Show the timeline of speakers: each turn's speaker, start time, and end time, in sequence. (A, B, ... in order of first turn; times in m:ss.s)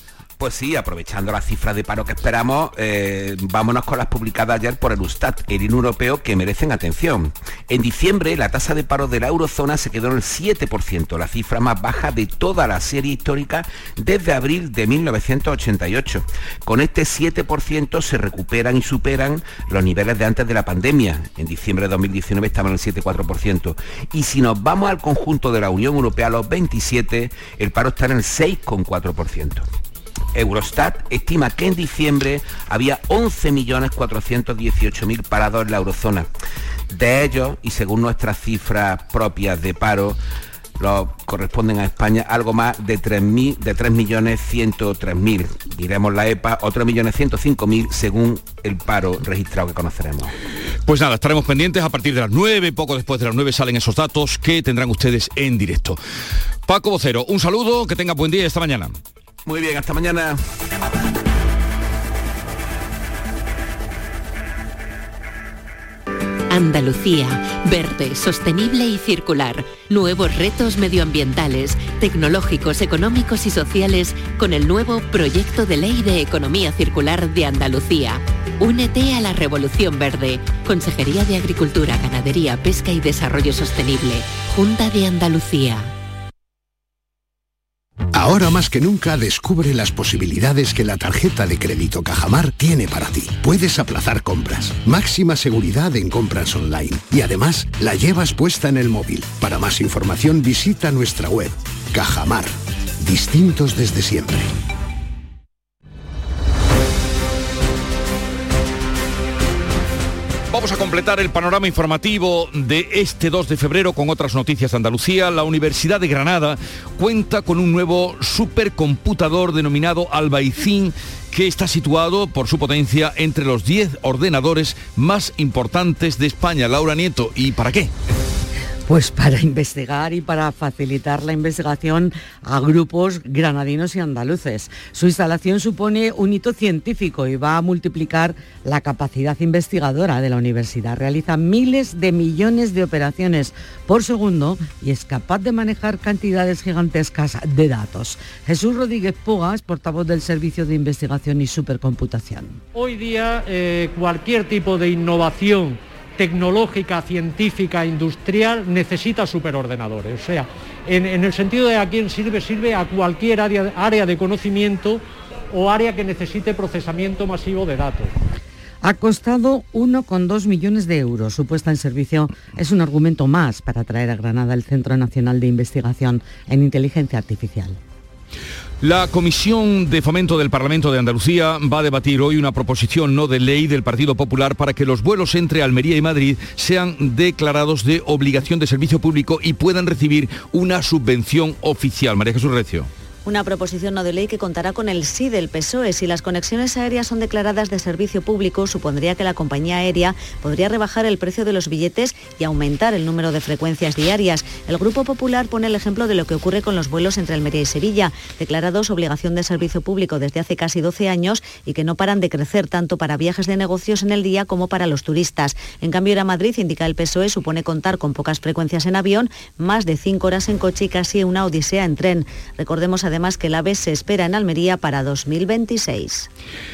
0:00.4-0:29.6 A
0:30.3-0:36.3 A
0:36.9-0:40.2 A
0:40.8-0:50.3 A
0:50.8-0:56.0 B
0:56.7-0:59.0 B
0:59.4-1:00.4 A
1:06.5-1:25.9 C
1:28.1-1:44.5 D
1:50.5-2:07.9 B
2:08.9-2:32.6 E
2:32.7-2:48.1 F
2:48.8-2:57.8 E
2:58.8-3:12.9 B
3:13.2-3:46.3 G